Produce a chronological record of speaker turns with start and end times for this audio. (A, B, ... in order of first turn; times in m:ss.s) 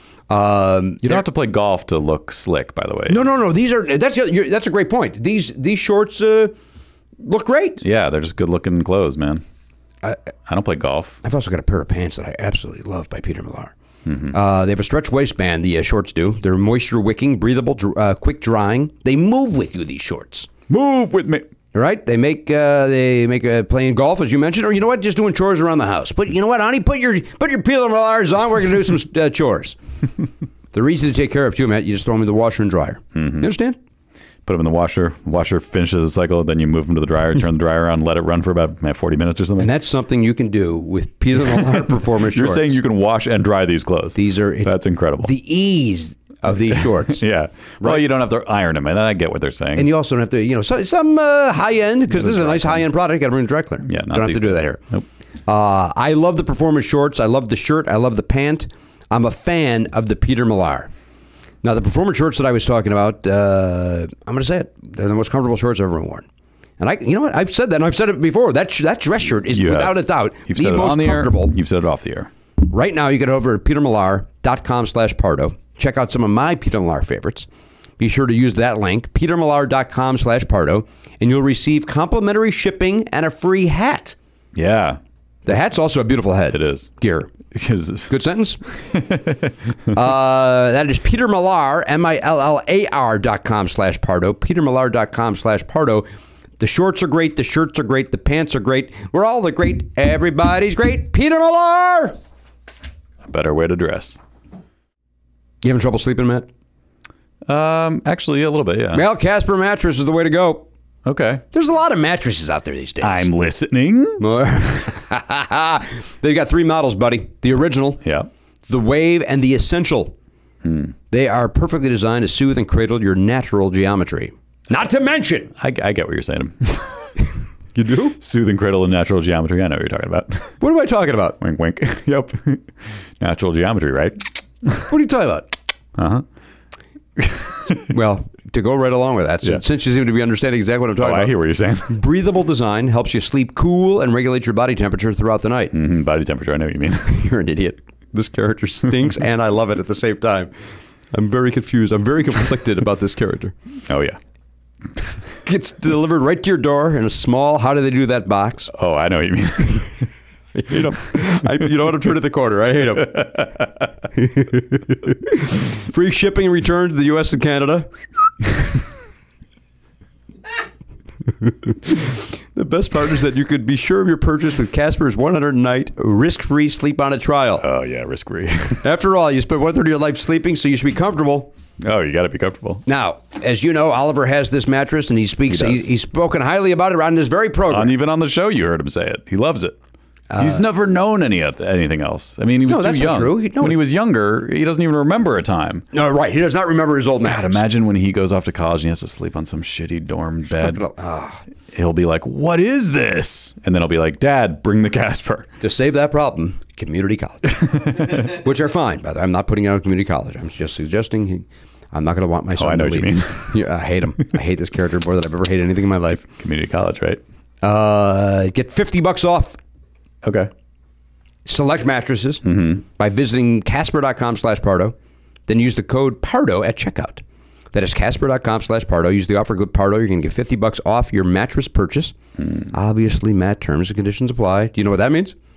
0:00.3-0:01.2 A
0:01.0-0:03.2 B
0:03.1-0:06.5 A
0:07.2-0:07.8 A
0:07.8-0:09.4 B
0:10.5-0:11.2 B
0:11.2-0:13.7 A
0:14.0-0:14.4 B
0:14.3-0:20.5 A
0:20.7-0:21.5 B
0:21.7-0:29.8 A
0:30.7-0:33.8 A
0:33.2-0:33.5 B
0:34.4-0:39.7 B
0:39.6-0:42.7 A
0:41.5-0:45.3 B
0:44.1-0:47.2 A
0:46.7-0:49.9 B
0:49.8-0:54.8 A
0:52.1-0:52.9 B
0:53.8-0:55.0 B
0:55.5-1:00.9 A
1:01.6-1:06.2 A
1:06.8-1:11.5 A
1:09.5-1:12.3 B
1:12.6-1:17.5 A
1:18.0-1:24.2 A
1:24.5-1:25.0 B
1:25.4-1:27.3 A
1:26.5-1:26.9 B
1:27.5-1:28.1 B
1:28.1-1:28.6 A
1:28.9-1:29.5 B
1:29.9-1:36.1 A
1:36.6-1:42.2 A
1:43.2-1:44.2 B
1:45.6-1:46.5 A
1:47.5-1:49.0 B
1:48.9-1:50.6 A
1:51.0-1:51.4 B
1:51.5-1:53.3 A
1:53.0-1:54.2 B
1:54.2-1:58.0 A
1:58.0-1:58.3 B
1:58.7-2:00.1 A
2:00.6-2:00.9 B
2:01.1-2:05.5 A
2:05.6-2:07.0 B
2:07.7-2:08.2 A
2:08.2-2:10.6 B
2:10.6-2:11.4 A
2:11.4-2:12.7 B
2:13.2-2:14.8 B
2:14.9-2:15.5 A
2:16.0-2:16.2 B
2:17.2-2:17.8 B
2:17.7-2:21.3 A
2:21.0-2:22.0 B
2:21.9-2:25.7 A
2:25.7-2:27.3 B
2:27.1-2:30.5 A
2:31.1-2:33.5 A
2:33.9-2:34.2 B
2:35.4-2:38.7 A
2:38.7-2:39.9 B
2:40.5-2:43.5 A
2:43.1-2:43.6 B
2:44.1-2:47.9 A
2:51.4-2:57.6 A
2:57.6-2:58.8 B
2:58.8-3:01.5 A
3:01.8-3:02.8 B
3:02.8-3:07.9 A
3:05.5-3:05.9 B
3:07.7-3:09.8 B
3:10.3-3:10.6 A
3:10.4-3:15.8 B
3:12.6-3:13.8 A
3:15.9-3:17.6 A
3:17.2-3:20.8 B
3:20.6-3:21.4 A
3:21.7-3:25.5 B
3:25.6-3:36.2 A
3:32.6-3:33.6 B
3:36.4-3:37.2 B
3:37.6-3:39.6 A
3:40.2-3:40.5 B
3:41.4-3:44.9 A
3:42.4-3:42.8 B
3:45.5-3:47.2 A
3:47.7-3:52.1 A
3:52.7-3:55.3 A